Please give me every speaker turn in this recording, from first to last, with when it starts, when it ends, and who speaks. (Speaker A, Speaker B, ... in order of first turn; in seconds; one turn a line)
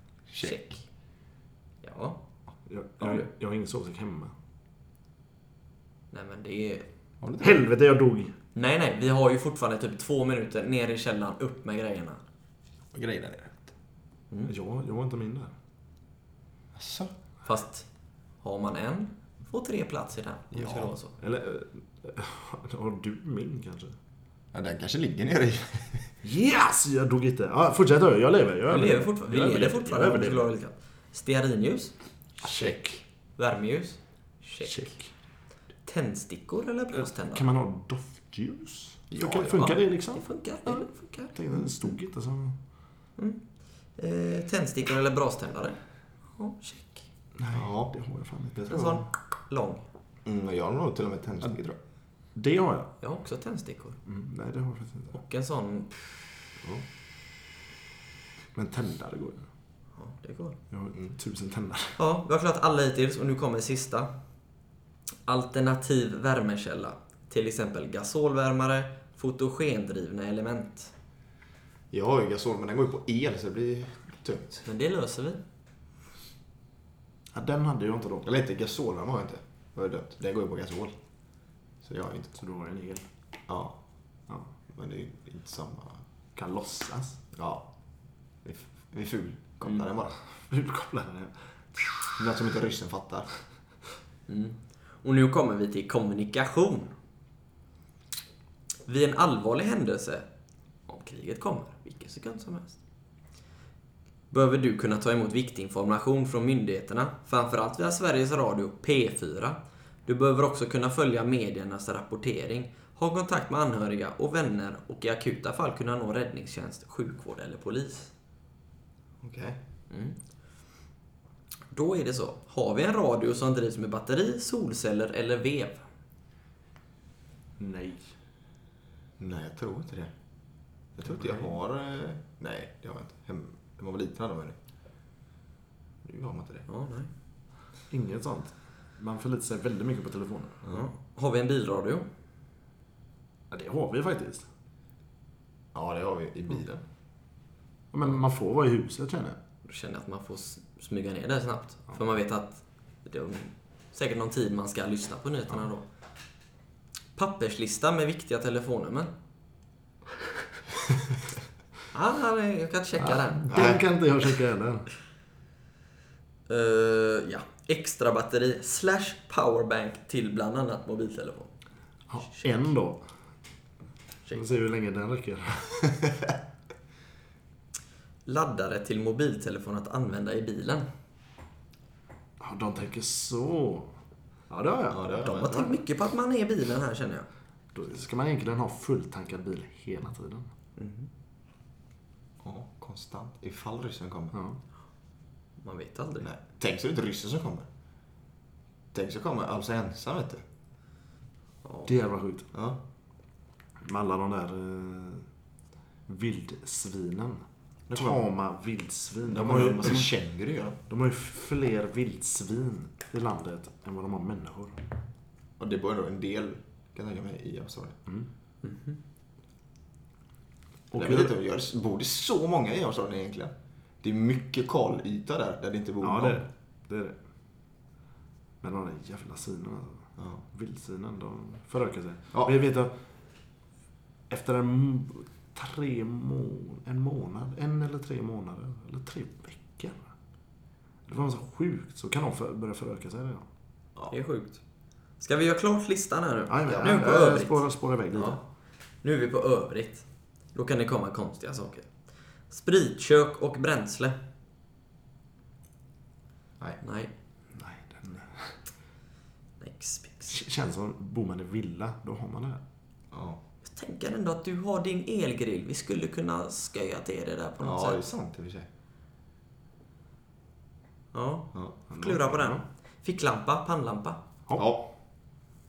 Speaker A: 0.3-0.7
Speaker B: 0.4-0.8
Speaker B: 1.8-2.2
Speaker C: 2.7-4.3
Speaker B: 6.1-6.9
Speaker A: 7.2-7.6
Speaker C: 7.4-8.3
Speaker B: 8.6-12.2
Speaker A: 12.9-13.7
Speaker C: 14.5-15.5
Speaker A: 16.8-17.1
Speaker B: 17.4-17.9
Speaker B: 18.4-21.1
Speaker A: 20.5-20.9
Speaker C: 21.2-23.9
Speaker A: 24.5-26.1
Speaker C: 26.2-30.5
Speaker B: 28.7-35.0
Speaker C: 32.4-33.0
Speaker C: 34.6-35.1
Speaker B: 35.9-37.5
Speaker C: 36.9-42.6
Speaker A: 39.1-39.8
Speaker B: 39.6-41.4
Speaker B: 43.2-47.1
Speaker C: 47.4-49.1
Speaker A: 47.5-47.9
Speaker B: 48.7-49.8
Speaker A: 50.2-51.8
Speaker C: 52.4-52.9
Speaker B: 53.0-54.0
Speaker C: 54.1-55.1
Speaker B: 55.1-55.9
Speaker C: 58.5-59.5
Speaker B: 60.0-60.6
Speaker C: 60.7-62.0
Speaker B: 62.0-64.1
Speaker B: 65.3-70.9
Speaker A: 71.9-74.7
Speaker B: 74.7-75.4
Speaker C: 77.3-78.3
Speaker A: 78.2-82.3
Speaker C: 82.3-83.1
Speaker A: 83.5-86.0
Speaker C: 86.3-87.2
Speaker A: 87.3-90.2
Speaker C: 90.4-92.2
Speaker A: 92.2-93.3
Speaker B: 94.3-96.9
Speaker B: 98.9-100.3
Speaker B: 100.9-102.8
Speaker B: 104.3-118.1
Speaker A: 119.2-119.6
Speaker B: 119.9-120.2
Speaker B: 121.7-125.8
Speaker C: 127.6-128.1
Speaker A: 129.2-134.6
Speaker C: 131.1-131.5
Speaker A: 136.0-136.7
Speaker B: 136.7-137.1
Speaker C: 137.9-140.6
Speaker B: 140.7-142.1
Speaker C: 143.5-144.5
Speaker A: 145.7-146.8
Speaker C: 147.9-149.4
Speaker B: 149.7-155.9
Speaker B: 157.2-159.1
Speaker B: 161.9-163.4
Speaker C: 163.0-164.9
Speaker A: 163.5-163.8
Speaker B: 166.5-171.6
Speaker C: 172.1-173.1
Speaker C: 174.3-175.8
Speaker B: 178.3-180.9
Speaker C: 182.4-183.9
Speaker C: 184.5-185.7
Speaker A: 184.9-185.5
Speaker B: 185.2-187.3
Speaker C: 187.7-190.5
Speaker B: 190.8-191.1
Speaker A: 192.4-194.4
Speaker C: 194.3-194.6
Speaker B: 195.6-196.3
Speaker A: 196.2-197.7
Speaker A: 198.9-200.4
Speaker B: 201.6-201.9
Speaker C: 201.9-202.5
Speaker A: 202.5-202.8
Speaker C: 203.8-205.2
Speaker C: 206.1-210.1
Speaker A: 207.9-208.2
Speaker A: 209.3-210.8
Speaker C: 210.9-214.8
Speaker A: 215.6-218.0
Speaker B: 218.6-219.0
Speaker C: 220.9-221.3
Speaker A: 220.9-226.4
Speaker C: 226.0-227.2
Speaker C: 228.6-232.9
Speaker C: 234.3-240.0
Speaker C: 241.1-243.5
Speaker B: 244.1-244.6
Speaker B: 245.2-254.2
Speaker C: 246.5-248.4
Speaker A: 246.7-247.2
Speaker B: 256.8-257.1
Speaker C: 257.5-258.6
Speaker B: 259.6-260.4
Speaker C: 260.3-262.6
Speaker A: 263.1-263.4
Speaker B: 263.6-268.0
Speaker A: 267.6-268.7
Speaker B: 271.1-274.2
Speaker C: 271.9-272.6
Speaker A: 274.6-274.9